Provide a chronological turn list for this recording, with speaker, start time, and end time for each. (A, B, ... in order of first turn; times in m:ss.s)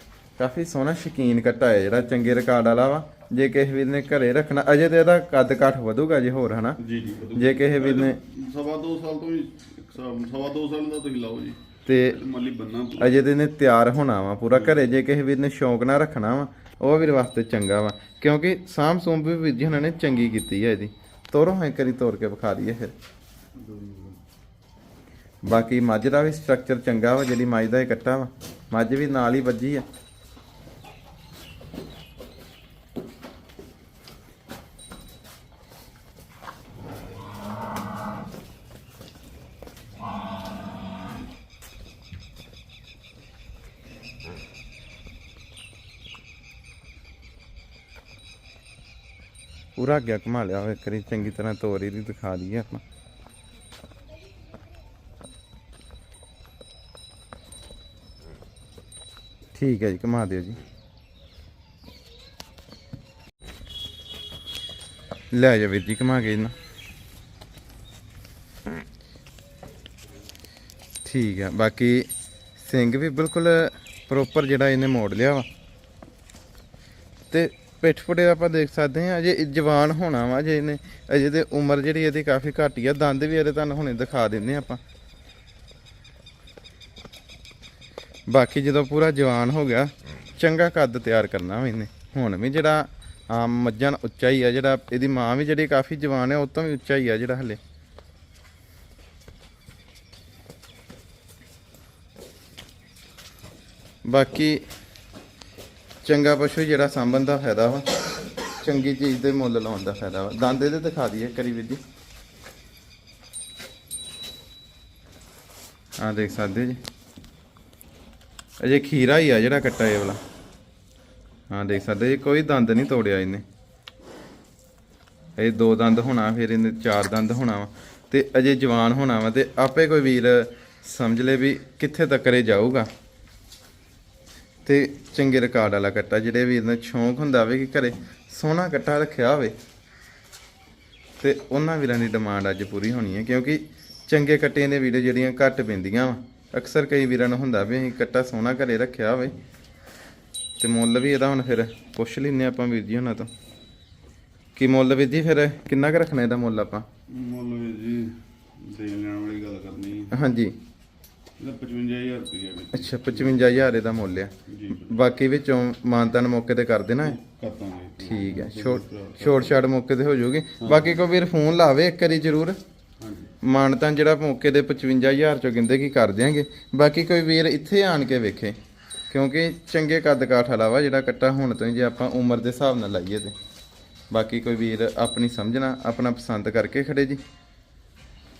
0:00.4-0:06.8 A
0:06.8-0:13.3 B
0:07.4-0:08.2 A
0:11.8-0:12.2 A
0:13.0-0:22.9 A
0:14.5-0:14.8 B
0:23.6-0:24.2 B
0:25.4-0:29.8 A
0:49.8-0:52.8 A
0:59.5-1:00.6 A
1:05.3-1:06.5 A
1:11.0-1:15.5 A
1:17.3-1:24.8 A
1:28.3-1:37.6 A
1:44.0-1:44.6 A
1:46.0-1:47.9 A
1:48.6-1:51.8 A
1:56.0-1:56.8 A
1:58.6-2:00.2 A
2:01.5-2:03.4 A
2:05.4-2:12.9 A
2:14.6-2:19.6 A
2:21.2-2:29.3 A
2:30.6-2:33.3 A
2:34.6-2:36.8 A
2:37.1-2:40.2 B
2:40.1-2:40.6 A
2:41.4-2:43.7 B
2:42.7-2:47.2 A
2:44.5-2:45.0 B
2:47.0-2:49.6 B
2:48.0-2:52.6 A
2:50.6-2:51.0 B
2:53.0-2:53.3 B
2:53.4-2:58.6 A
2:59.1-3:03.3 A
3:04.1-3:07.2 A